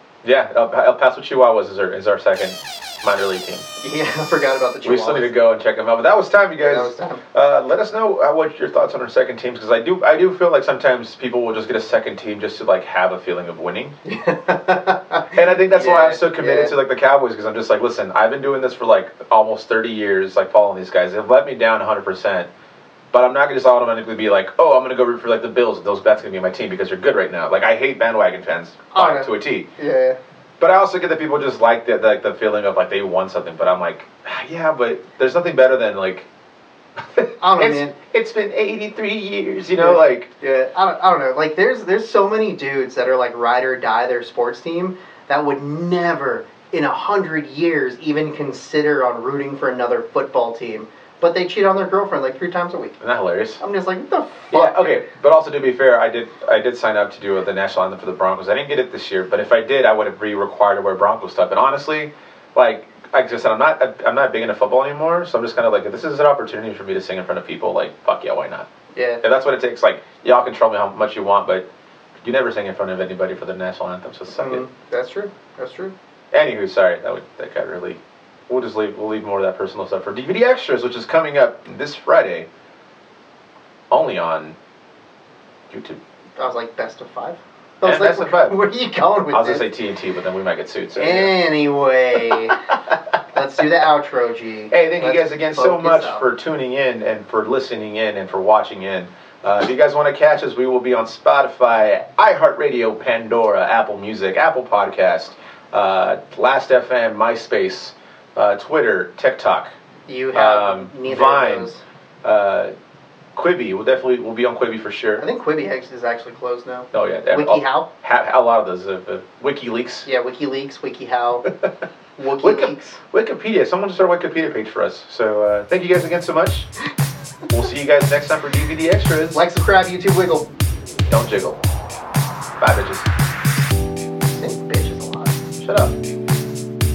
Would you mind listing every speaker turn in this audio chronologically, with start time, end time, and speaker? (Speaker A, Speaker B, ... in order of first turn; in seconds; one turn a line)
Speaker A: 0.2-3.7
Speaker B: 3.8-5.3
Speaker A: 4.8-13.9
Speaker B: 6.6-7.2
Speaker B: 14.1-16.7
Speaker A: 15.3-22.5
Speaker A: 23.1-29.7
Speaker B: 28.9-30.2
Speaker A: 30.6-36.3
Speaker A: 37.0-40.3
Speaker B: 37.4-37.9
Speaker B: 39.8-53.0
Speaker A: 53.0-53.6
Speaker B: 53.6-55.1
Speaker A: 54.5-68.7
Speaker B: 68.9-69.2
Speaker A: 69.2-71.7
Speaker A: 72.2-74.7
Speaker B: 74.3-75.9
Speaker A: 76.3-82.5
Speaker A: 83.9-84.6
Speaker A: 85.7-86.0
Speaker B: 86.4-89.7
Speaker A: 87.8-88.6
Speaker A: 89.3-91.4
Speaker B: 91.0-92.8
Speaker B: 93.3-96.2
Speaker A: 94.7-109.7
Speaker B: 110.1-111.8
Speaker A: 110.3-111.7
Speaker A: 112.2-112.7
Speaker A: 113.3-115.3
Speaker B: 115.2-117.9
Speaker A: 116.9-120.1
Speaker B: 120.0-121.5
Speaker B: 122.2-123.0
Speaker A: 122.4-126.7
Speaker A: 127.5-129.4
Speaker B: 129.3-130.5
Speaker A: 131.1-131.6
Speaker A: 132.6-133.1
Speaker B: 134.3-135.4
Speaker A: 135.6-135.9